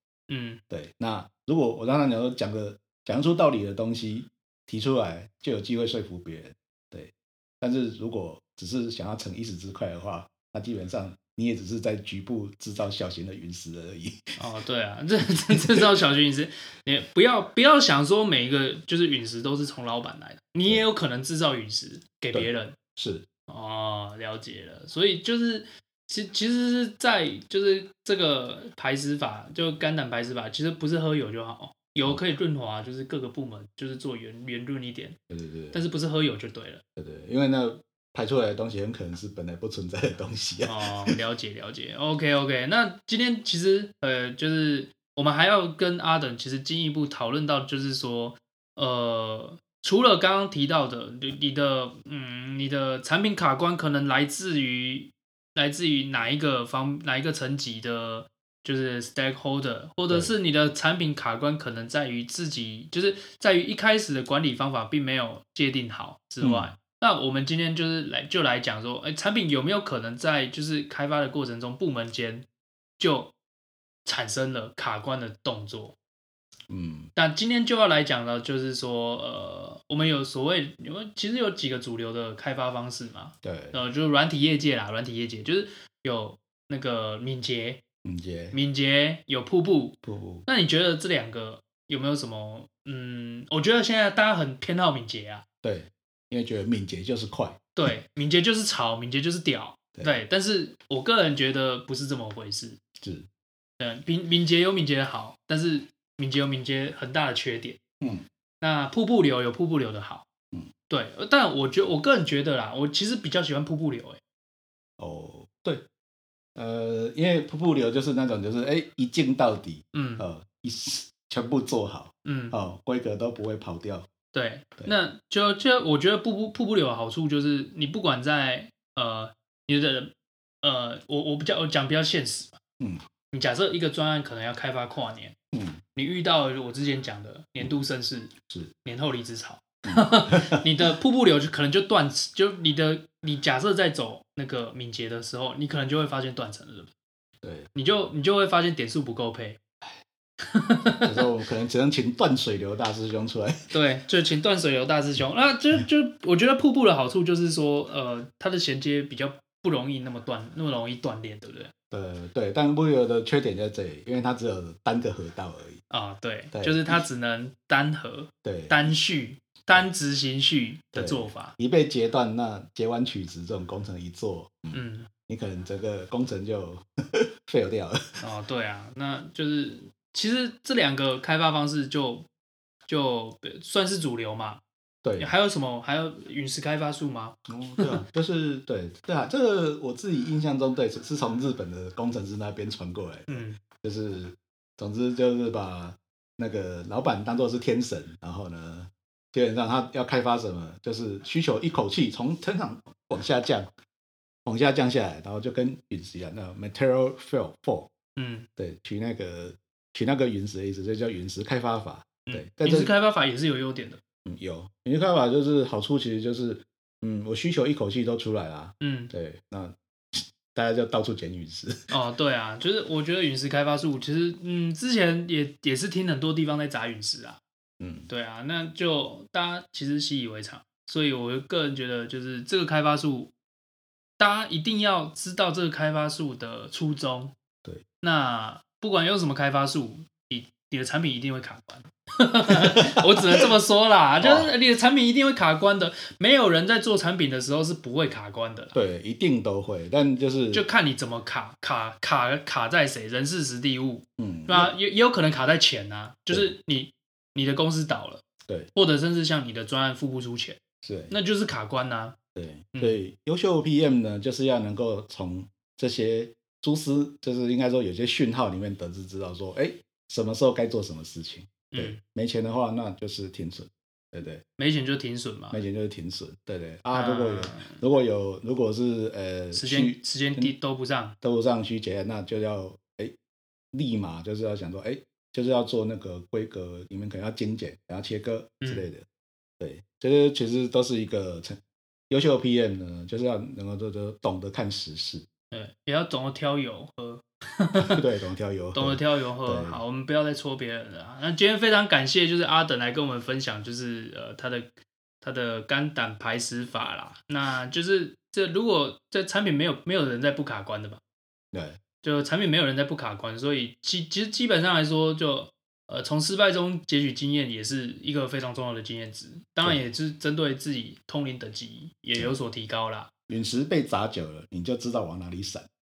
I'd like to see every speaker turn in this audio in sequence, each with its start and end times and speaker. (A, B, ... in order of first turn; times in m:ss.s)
0:00.3-0:00.6 A
0:00.7-0:14.4 B
0:14.4-0:22.7 A
0:22.3-0:23.2 B
0:23.5-0:35.2 A
0:35.3-0:35.8 B
0:35.7-0:36.8 A
0:37.0-0:41.2 B
0:40.6-1:12.4 A
1:00.1-1:00.3 B
1:06.4-1:06.7 B
1:13.0-1:13.3 A
1:14.0-1:15.9 A
1:16.7-1:17.1 B
1:17.1-1:27.8 A
1:23.4-1:23.8 B
1:28.0-1:28.6 B
1:28.5-1:35.4 A
1:30.0-1:30.5 B
1:35.6-1:37.7 B
1:37.8-1:42.8 A
1:39.9-1:40.2 B
1:43.0-1:43.3 B
1:43.8-1:47.8 A
1:48.6-1:50.2 A
1:50.9-1:54.2 A
1:55.0-1:55.8 B
1:56.6-2:04.1 B
1:59.9-2:00.3 A
2:02.2-2:02.6 A
2:04.3-2:10.1 A
2:10.6-2:12.6 A
2:13.3-2:15.3 A
2:15.5-2:15.8 B
2:15.9-2:18.3 A
2:18.8-2:26.9 A
2:19.8-2:20.7 B
2:27.4-2:27.7 B
2:27.7-2:29.6 A
2:30.4-2:31.2 A
2:31.0-2:33.7 B
2:33.7-2:41.7 A
2:41.9-2:45.8 B
2:45.9-2:51.5 A
2:46.5-2:47.0 B
2:48.4-2:48.9 B
2:50.9-2:58.2 B
2:54.7-2:55.1 A
2:58.2-3:02.2 A
3:02.9-3:04.6 A
3:05.0-3:05.3 B
3:05.2-3:08.0 A
3:07.5-3:23.7 B
3:13.3-3:13.6 A
3:24.4-3:27.9 B
3:28.2-3:28.5 A
3:28.6-3:32.9 B
3:32.3-3:34.0 A
3:34.2-3:41.9 B
3:38.8-3:39.1 A
3:41.9-3:47.4 A
3:47.8-3:48.1 B
3:48.1-3:53.3 A
3:54.2-3:57.3 A
3:58.0-4:08.8 A
4:04.2-4:04.5 B
4:08.7-4:10.6 B
4:10.5-4:18.2 A
4:14.2-4:14.7 B
4:18.7-4:20.6 A
4:20.8-4:21.2 B
4:21.1-4:22.2 A
4:22.3-4:34.4 B
4:31.7-4:32.0 A
4:34.6-4:35.6 A
4:35.5-4:40.5 B
4:36.9-4:37.8 A
4:39.5-4:41.1 A
4:41.2-4:43.1 B
4:43.7-4:49.0 B
4:48.6-4:48.9 A
4:49.6-4:55.2 B
4:55.5-4:58.0 A
4:57.8-4:59.8 B
4:58.7-5:11.0 A
5:11.5-5:11.8 B
5:12.0-5:23.1 A
5:23.3-5:25.6 B